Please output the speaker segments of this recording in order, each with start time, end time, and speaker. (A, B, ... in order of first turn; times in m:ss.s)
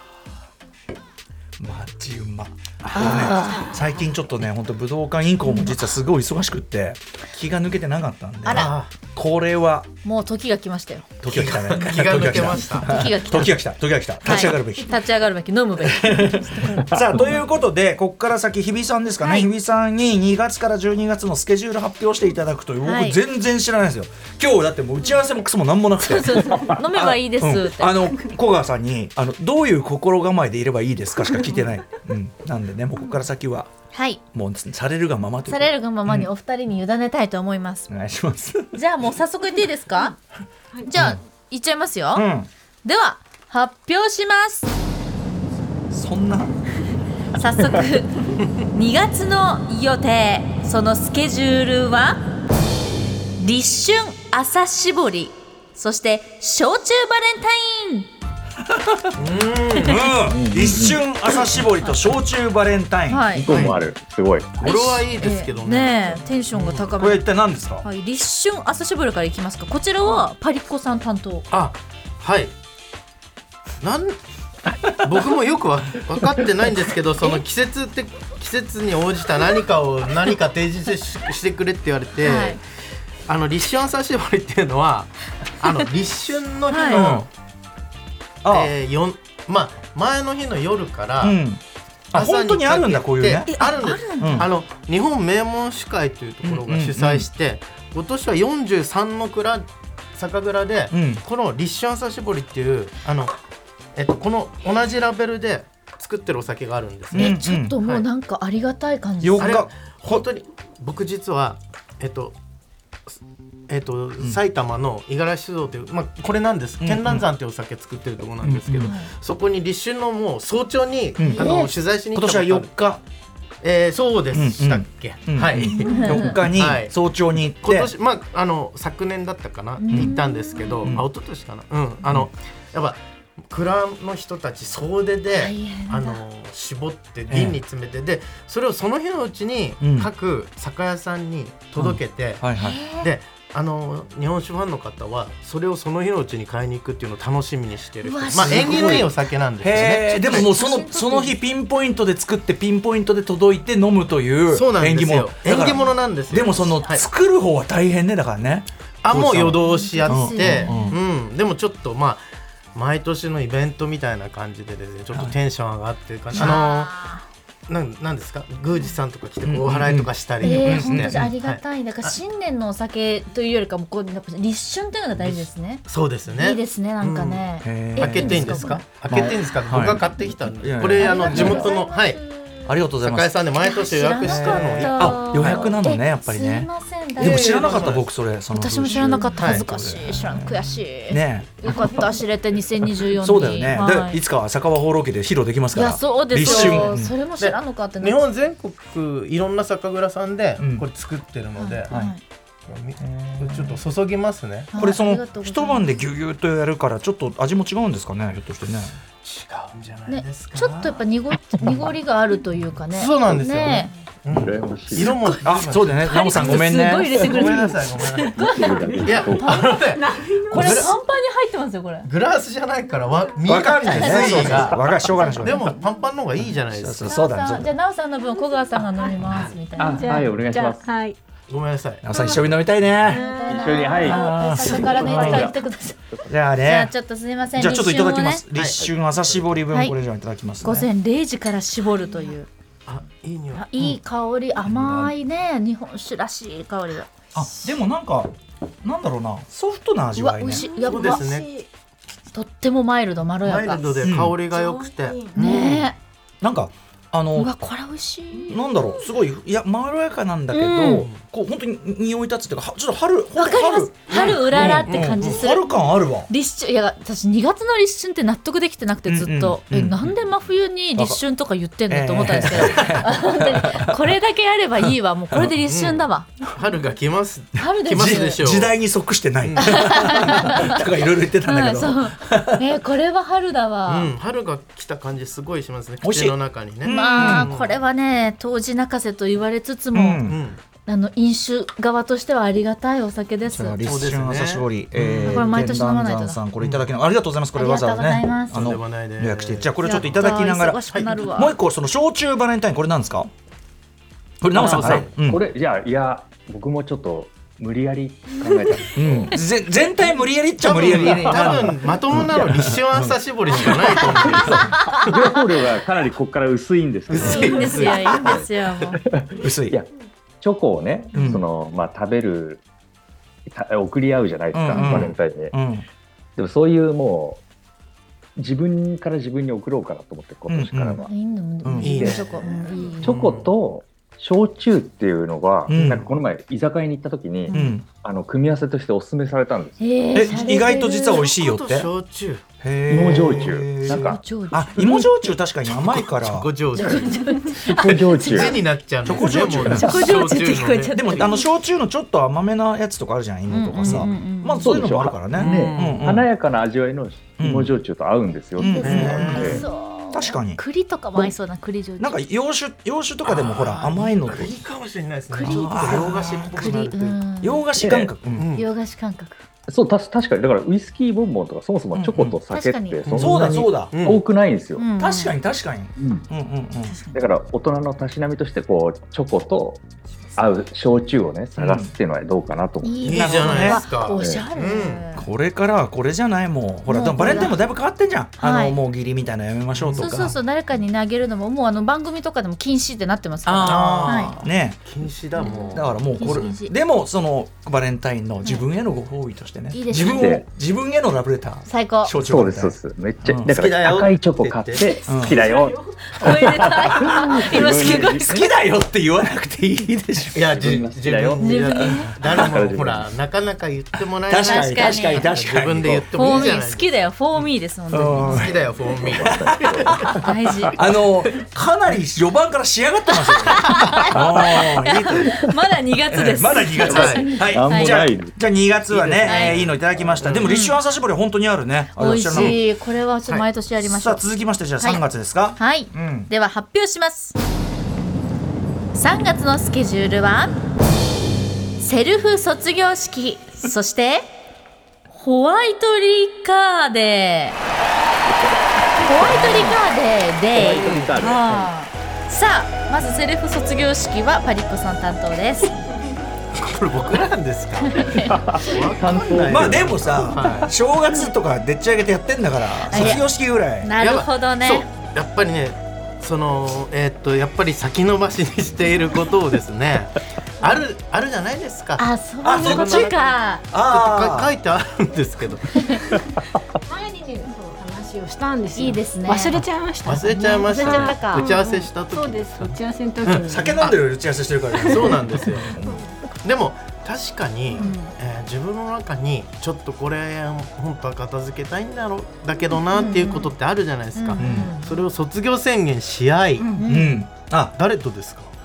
0:01.6-0:09.9 A
0:02.9-0:03.7 B
0:02.9-0:03.3 C
0:05.4-0:05.7 B
0:08.4-0:08.7 B
0:08.5-0:08.9 C
0:10.0-0:11.1 B
0:11.2-0:15.0 A
0:11.3-0:13.4 C
0:12.8-0:13.6 B
0:14.2-0:17.3 B
0:15.8-0:33.7 A
0:19.2-0:19.5 B
0:22.8-0:23.2 B
0:26.0-0:28.2 B
0:33.9-0:34.2 B
0:34.3-0:36.3 A
0:35.5-0:37.9 B
0:37.9-0:38.7 A
0:38.7-0:40.2 B
0:40.8-0:42.3 B
0:42.1-0:42.5 A
0:42.8-0:44.7 B
0:45.9-0:46.6 A
0:47.3-0:52.2 B
0:53.4-0:58.1 B
0:58.7-0:59.1 A
0:59.2-1:00.1 C
0:59.8-1:03.6 A
1:00.3-1:01.0 D
1:03.1-1:03.5 B
1:03.4-1:04.7 D
1:03.5-1:03.8 C
1:04.6-1:06.9 C
1:04.6-1:07.3 B
1:06.9-1:07.8 A
1:07.8-1:11.5 B
1:11.5-1:12.5 C
1:13.8-1:14.2 C
1:15.0-1:22.6 C
1:22.2-1:22.6 B
1:23.3-1:27.3 C
1:26.7-1:27.1 B
1:26.9-1:27.2 A
1:28.4-1:28.7 A
1:28.5-1:31.4 C
1:31.2-1:31.6 A
1:32.1-1:33.5 A
1:32.1-1:39.6 C
1:33.5-1:34.5 B
1:34.2-1:34.5 A
1:36.4-1:37.3 A
1:40.2-1:43.4 C
1:40.9-1:41.2 A
1:43.9-1:48.0 C
1:47.1-1:47.8 A
1:47.1-1:49.6 B
1:49.2-1:50.2 A
1:49.4-1:52.4 C
1:53.7-2:02.7 C
1:56.8-1:57.2 A
1:58.4-1:58.9 A
1:58.8-1:59.1 B
2:01.2-2:01.6 A
2:01.2-2:01.7 B
2:02.1-2:03.0 A
2:03.6-2:13.0 C
2:04.3-2:07.9 A
2:05.8-2:06.4 B
2:09.8-2:10.9 B
2:09.9-2:10.2 A
2:13.5-2:22.4 C
2:15.3-2:16.2 B
2:17.3-2:17.6 A
2:19.8-2:20.1 A
2:21.8-2:22.8 A
2:22.6-2:23.1 B
2:22.9-2:30.5 C
2:28.0-2:29.1 B
2:28.4-2:40.9 A
2:29.8-2:31.3 B
2:34.5-2:37.1 C
2:39.0-2:42.2 C
2:39.6-2:41.0 B
2:42.8-2:46.9 C
2:46.3-2:47.2 B
2:47.7-2:52.2 C
2:49.5-2:51.3 A
2:50.4-2:59.2 B
2:55.2-2:57.4 C
2:57.6-3:01.7 A
2:58.0-3:02.2 C
3:01.0-3:02.7 B
3:02.7-3:03.4 A
3:03.0-3:05.7 C
3:03.6-3:07.9 B
3:04.2-3:12.0 A
3:07.2-3:08.1 C
3:08.5-3:14.2 B
3:08.9-3:09.6 C
3:13.0-3:17.1 A
3:15.7-3:18.2 B
3:16.4-3:21.9 C
3:20.6-3:20.8 A
3:21.6-3:22.2 B
3:22.7-3:24.7 C
3:23.0-3:23.8 A
3:24.7-3:25.9 B
3:24.8-3:28.9 A
3:29.2-3:31.0 C
3:30.1-3:33.9 B
3:32.9-3:38.4 C
3:34.3-3:35.2 D
3:35.0-3:35.4 B
3:35.4-3:37.3 A
3:36.0-3:39.8 B
3:38.4-3:39.7 D
3:39.0-3:41.0 C
3:39.4-3:40.9 E
3:40.5-3:42.1 B
3:42.0-3:47.1 C
3:43.5-3:45.7 A
3:43.8-3:45.8 B
3:46.5-3:47.7 A
3:47.0-3:50.3 B
3:48.7-3:51.2 E
3:49.3-3:49.5 C
3:49.8-3:50.9 D
3:51.5-3:52.0 C
3:52.0-3:53.2 A
3:52.1-3:55.5 E
3:53.0-3:56.0 B
3:53.5-3:55.5 D
3:54.0-3:55.5 A
3:56.2-3:56.9 A
3:56.6-3:58.4 B
3:57.6-4:00.9 A
3:58.5-3:58.8 C
3:59.7-4:00.0 B
4:00.6-4:02.5 B
4:02.9-4:04.0 C
4:03.5-4:07.2 B
4:04.6-4:05.1 C
4:07.3-4:08.3 A
4:08.8-4:10.6 A
4:10.1-4:11.3 B
4:10.5-4:11.7 E
4:10.9-4:11.5 C
4:12.3-4:14.0 B
4:13.4-4:15.9 C
4:14.0-4:14.4 A
4:14.4-4:15.4 E
4:15.4-4:16.0 B
4:16.4-4:17.5 A
4:17.4-4:18.6 B
4:18.3-4:19.1 E
4:18.5-4:26.3 A
4:20.5-4:21.1 B
4:23.4-4:25.7 B
4:24.1-4:25.5 C
4:26.3-4:36.3 B
4:29.0-4:30.2 A
4:31.9-4:34.0 A
4:35.7-4:38.8 C
4:37.6-4:38.4 B
4:37.9-4:42.6 A
4:39.4-4:40.7 C
4:39.6-4:40.8 B
4:41.4-4:44.1 B
4:43.9-4:47.8 C
4:46.0-4:47.5 A
4:46.9-4:50.2 B
4:49.9-4:50.4 A
4:50.3-4:50.6 C
4:50.9-4:53.9 B
4:53.5-5:03.3 A
4:53.8-4:55.8 C
4:55.2-4:56.4 B
4:56.6-4:56.9 C
4:57.5-4:58.7 B
4:58.5-5:01.3 C
4:59.8-5:01.5 B
5:04.4-5:05.4 A
5:04.5-5:05.1 C
5:04.6-5:09.3 D
5:08.9-5:14.8 A
5:10.6-5:15.2 C
5:11.2-5:11.6 D
5:12.2-5:12.5 D
5:13.5-5:18.4 D
5:14.2-5:15.1 B
5:17.1-5:18.4 C
5:17.2-5:19.0 B
5:19.0-5:19.9 D
5:19.4-5:19.8 A
5:20.4-5:22.6 D
5:21.1-5:21.4 A
5:23.5-5:25.5 D
5:24.5-5:25.8 A
5:24.7-5:25.0 B
5:26.4-5:27.4 D
5:28.4-5:31.1 D
5:30.5-5:31.0 A
5:31.0-5:33.2 B
5:31.6-5:32.2 A
5:31.8-5:33.5 C
5:33.0-5:39.8 D
5:35.7-5:36.1 A
5:37.5-5:37.8 B
5:37.5-5:37.8 A
5:39.8-5:41.3 B
5:40.1-5:41.9 A
5:41.2-5:42.4 C
5:42.6-5:46.5 A
5:42.9-5:44.2 D
5:43.1-5:43.5 C
5:43.9-5:45.1 B
5:45.6-5:47.2 C
5:46.8-5:48.6 B
5:47.5-5:48.6 D
5:47.9-5:51.2 C
5:49.0-5:50.4 A
5:49.2-5:51.4 B
5:50.9-5:56.3 A
5:53.5-5:54.8 B
5:54.6-5:59.6 D
5:55.3-5:56.0 C
5:57.4-5:57.7 A
5:58.6-6:00.6 A
5:58.6-6:02.2 B
5:58.8-5:59.6 C
6:02.0-6:04.5 A
6:03.2-6:07.2 C
6:05.3-6:07.6 B
6:05.4-6:08.5 A
6:07.8-6:08.1 D
6:08.4-6:08.7 C
6:08.6-6:09.4 B
6:09.7-6:14.9 D
6:11.9-6:12.4 A
6:12.5-6:13.0 B
6:13.0-6:14.2 C
6:13.2-6:13.9 A
6:14.8-6:15.3 B
6:15.0-6:17.0 A
6:16.0-6:16.2 D
6:17.1-6:19.8 D
6:20.4-6:23.3 D
6:21.6-6:21.9 A
6:22.8-6:25.2 B
6:23.0-6:25.0 C
6:23.1-6:23.8 A
6:24.2-6:24.4 D
6:25.1-6:30.4 A
6:26.9-6:27.5 B
6:27.2-6:27.5 C
6:28.4-6:28.8 B
6:29.7-6:30.1 C
6:30.0-6:34.4 B
6:33.5-6:36.0 C
6:33.6-6:34.8 A
6:35.4-6:36.7 B
6:35.7-6:44.1 A
6:39.7-6:40.4 B
6:40.0-6:40.5 D
6:41.6-6:42.1 B
6:42.1-6:48.5 D
6:43.5-6:45.0 C
6:45.1-6:45.4 A
6:45.2-6:46.7 E
6:46.1-6:48.4 B
6:47.1-6:50.7 A
6:50.3-6:56.9 C
6:50.4-6:53.1 D
6:51.4-6:52.1 B
6:54.3-6:56.5 A
6:54.4-6:55.3 B
6:56.1-6:58.5 B
6:57.9-7:00.2 A
6:58.2-7:00.1 C
6:59.0-7:00.7 D
7:00.2-7:00.8 B
7:00.7-7:05.5 A
7:03.2-7:08.0 B
7:06.1-7:12.6 A
7:06.8-7:10.0 D
7:06.9-7:07.3 C
7:08.9-7:10.6 C
7:09.2-7:09.6 B
7:10.4-7:10.8 B
7:12.0-7:14.2 B
7:13.8-7:16.3 A
7:15.6-7:17.4 B
7:18.9-7:20.6 B
7:21.8-7:24.3 B
7:25.1-7:27.6 B
7:28.3-7:29.8 D
7:29.0-7:35.9 B
7:30.5-7:31.7 D
7:30.8-7:31.2 C
7:36.6-7:40.7 C
7:37.8-7:38.7 B
7:38.2-7:40.4 D
7:39.5-7:43.9 A
7:42.9-7:43.2 B
7:42.9-7:43.2 C
7:43.8-7:44.9 B
7:44.0-7:53.1 C
7:52.0-7:53.6 B
7:52.4-7:53.1 A
7:53.7-7:54.5 A
7:53.8-7:56.2 C
7:56.9-8:03.9 E
7:58.8-7:59.6 B
8:00.0-8:03.9 C
8:00.3-8:01.5 B
8:03.5-8:06.0 A
8:04.8-8:06.2 E
8:04.8-8:05.8 C
8:06.4-8:16.7 C
8:07.8-8:08.1 B
8:12.9-8:13.5 B
8:14.1-8:14.6 B
8:14.4-8:14.7 A
8:14.4-8:14.9 E
8:16.6-8:17.0 E
8:16.8-8:17.2 B
8:16.9-8:17.8 A
8:17.8-8:18.5 C